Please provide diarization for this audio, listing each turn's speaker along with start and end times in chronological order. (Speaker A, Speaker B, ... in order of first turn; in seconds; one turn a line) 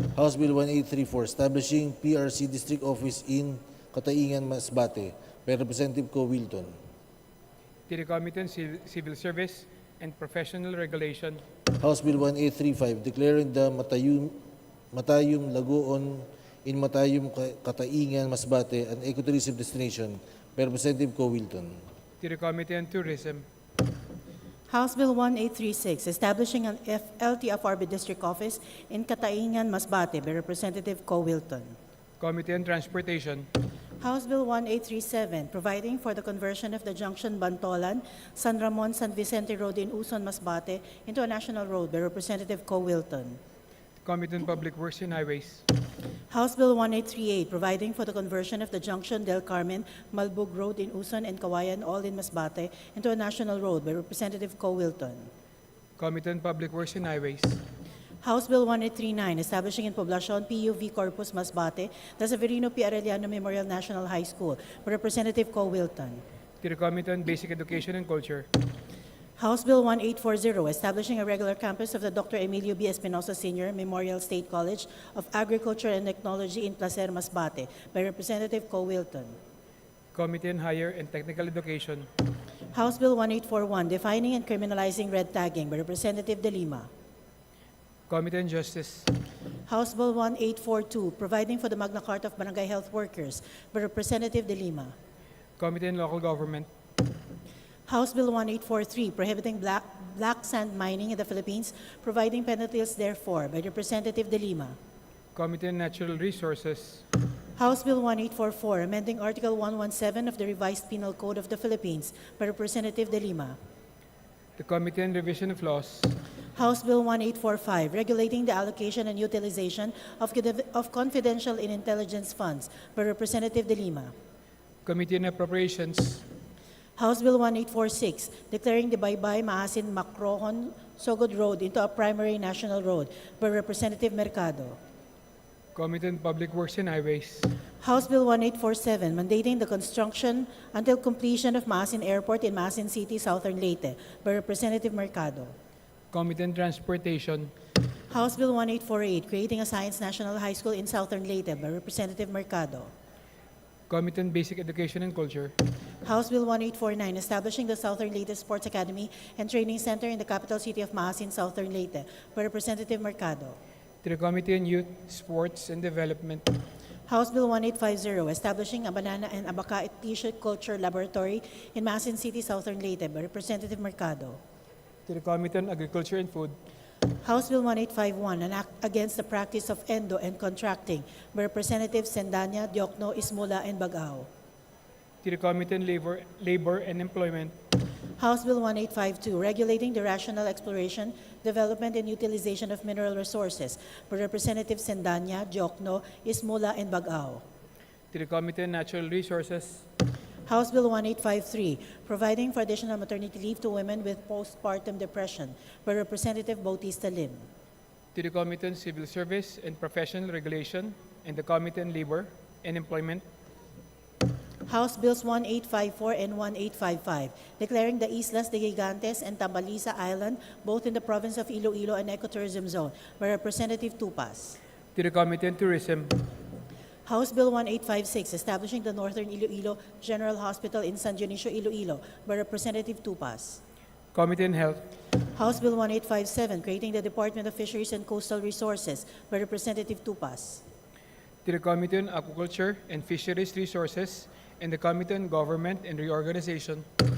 Speaker A: 0.1-6.7
Speaker B: 7.9-11.4
Speaker A: 11.7-14.4
Speaker A: 14.9-21.8
Speaker B: 22.2-23.4
Speaker C: 24.7-31.8
Speaker B: 32.2-33.5
Speaker C: 34.0-43.4
Speaker B: 44.0-45.6
Speaker C: 46.3-55.3
Speaker B: 56.0-57.6
Speaker C: 58.2-66.2
Speaker B: 66.6-68.5
Speaker C: 69.4-79.4
Speaker B: 80.1-82.1
Speaker C: 82.7-86.9
Speaker B: 88.1-89.1
Speaker C: 89.7-94.9
Speaker B: 95.6-96.7
Speaker C: 97.9-104.8
Speaker B: 105.3-107.0
Speaker C: 107.6-113.6
Speaker B: 114.6-116.1
Speaker C: 116.5-124.1
Speaker B: 124.8-126.2
Speaker C: 127.0-134.8
Speaker B: 135.8-137.5
Speaker C: 137.8-145.5
Speaker B: 146.1-147.5
Speaker C: 148.1-152.9
Speaker B: 153.9-155.5
Speaker C: 156.0-163.6
Speaker B: 164.0-166.5
Speaker C: 167.1-174.4
Speaker B: 175.1-176.5
Speaker C: 177.2-184.3
Speaker B: 185.2-187.5
Speaker C: 188.2-197.4
Speaker B: 198.1-199.8
Speaker C: 200.5-207.5
Speaker B: 208.1-213.2
Speaker C: 214.7-224.6
Speaker B: 224.9-226.2
Speaker C: 227.1-233.6
Speaker B: 234.1-234.8
Speaker C: 235.3-240.6
Speaker B: 241.4-246.8